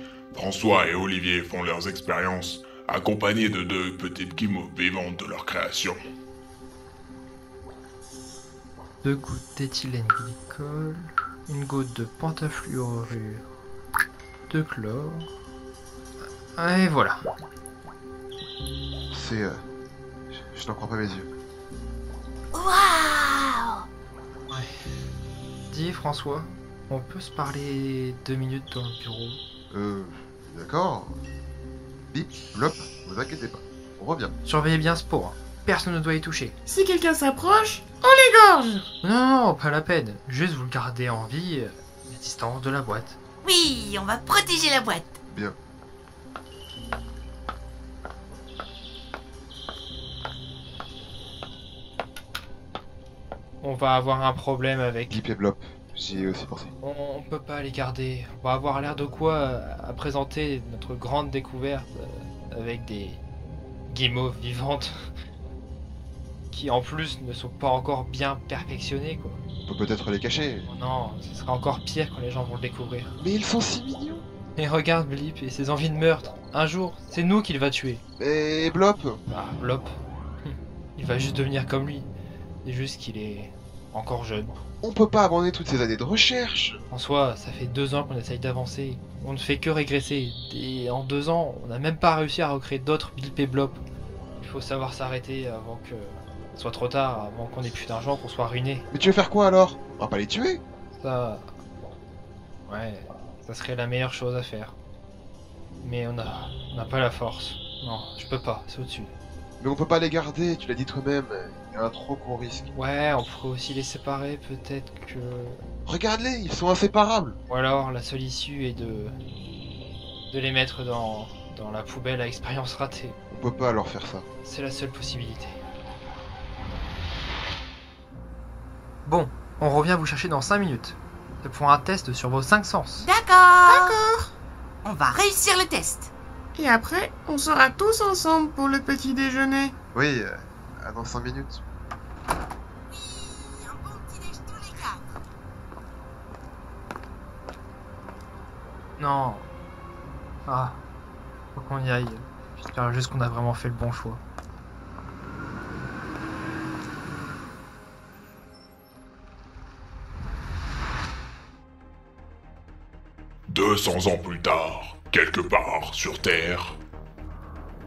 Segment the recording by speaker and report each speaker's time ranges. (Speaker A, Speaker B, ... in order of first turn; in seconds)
Speaker A: 0.3-6.0, 163.5-166.8
Speaker B: 9.0-13.4, 14.5-15.2, 16.6-17.2, 25.7-29.4, 34.4-36.5, 39.0-43.2, 53.6-55.1, 56.8-63.2, 63.9-64.9, 66.5-69.4, 70.7-73.1, 74.5-78.0, 79.3-79.9, 80.4-82.1, 82.6-84.5, 86.9-93.8, 94.4-98.8, 101.0-101.4, 102.7-104.7, 105.8-109.1, 112.7-115.6, 117.5-119.1, 120.3-123.2, 124.4-125.6, 129.0-133.1, 149.0-149.4, 150.4-150.8, 151.5-154.2
Speaker C: 19.1-19.6, 20.3-21.3, 29.7-31.1, 32.1-34.3, 45.3-45.5, 55.1-56.7, 69.7-70.7, 73.2-74.2, 78.2-79.2, 84.8-86.8, 98.9-100.6, 109.6-112.7, 115.8-117.4, 123.3-124.2, 139.9-141.6
Speaker D: 22.5-23.8, 43.4-45.1, 133.0-134.0, 134.8-136.1, 142.9-145.1
Speaker E: 36.6-38.8, 133.7-134.3, 136.5-139.7